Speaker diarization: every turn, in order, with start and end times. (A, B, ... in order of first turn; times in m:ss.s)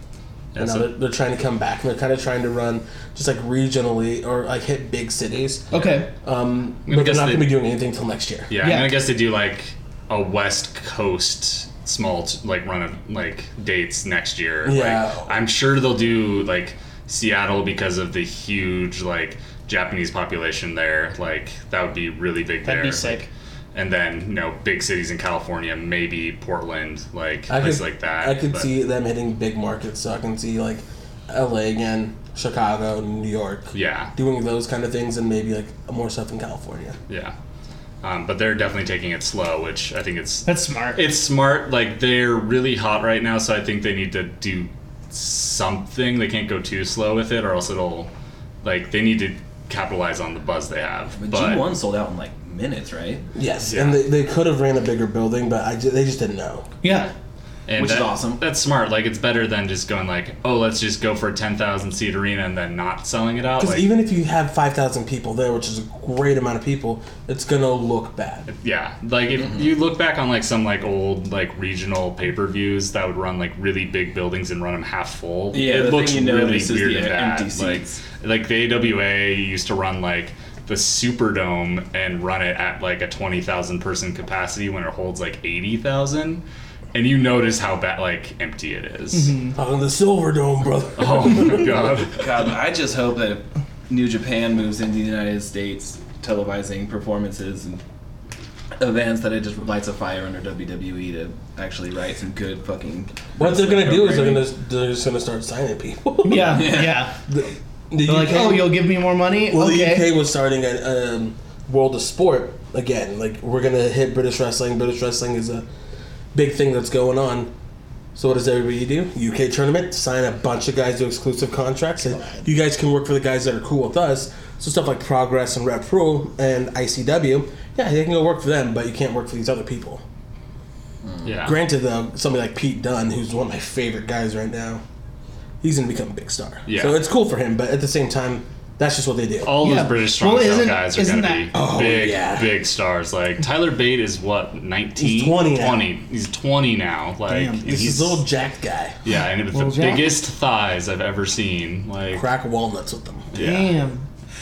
0:00.5-0:00.9 A
0:00.6-0:08.5 B
0:05.7-0:06.1 C
0:06.9-0:07.5 A
0:08.5-0:28.7 A
0:08.6-0:08.9 C
0:14.6-0:15.3 B
0:22.6-0:23.3 C
0:27.5-0:37.0 B
0:33.7-0:34.1 A
0:37.1-0:37.4 A
0:38.0-0:48.1 A
0:40.5-0:41.1 C
0:48.6-0:51.7 A
0:51.2-0:53.3 D
0:53.4-0:56.7 B
0:53.6-0:54.0 A
0:56.8-0:57.1 C
0:57.7-1:03.9 A
0:57.8-0:58.4 D
1:03.6-1:08.5 B
1:08.5-1:26.4 A
1:15.5-1:18.0 D
1:26.9-1:29.4 A
1:29.1-1:29.5 C
1:29.5-1:31.9 B
1:31.0-1:32.2 A
1:32.2-1:37.8 D
1:38.8-1:44.4 D
1:43.4-1:48.9 B
1:46.2-1:47.2 C
1:46.4-1:47.0 D
1:48.0-1:50.1 C
1:49.5-1:55.6 B
1:56.3-1:57.5 B
1:58.2-2:10.0 B
2:11.2-2:11.6 A
2:11.4-2:14.8 B
2:15.6-2:19.6 B
2:16.7-2:17.0 A
2:19.4-2:28.2 A
2:19.6-2:21.5 C
2:21.5-2:22.5 B
2:25.0-2:25.9 B
2:27.3-2:27.7 C
2:27.7-2:29.0 B
2:29.0-2:32.3 A
2:29.5-2:30.2 C
2:32.1-2:33.3 B
2:33.3-2:33.8 A
2:33.4-2:34.1 C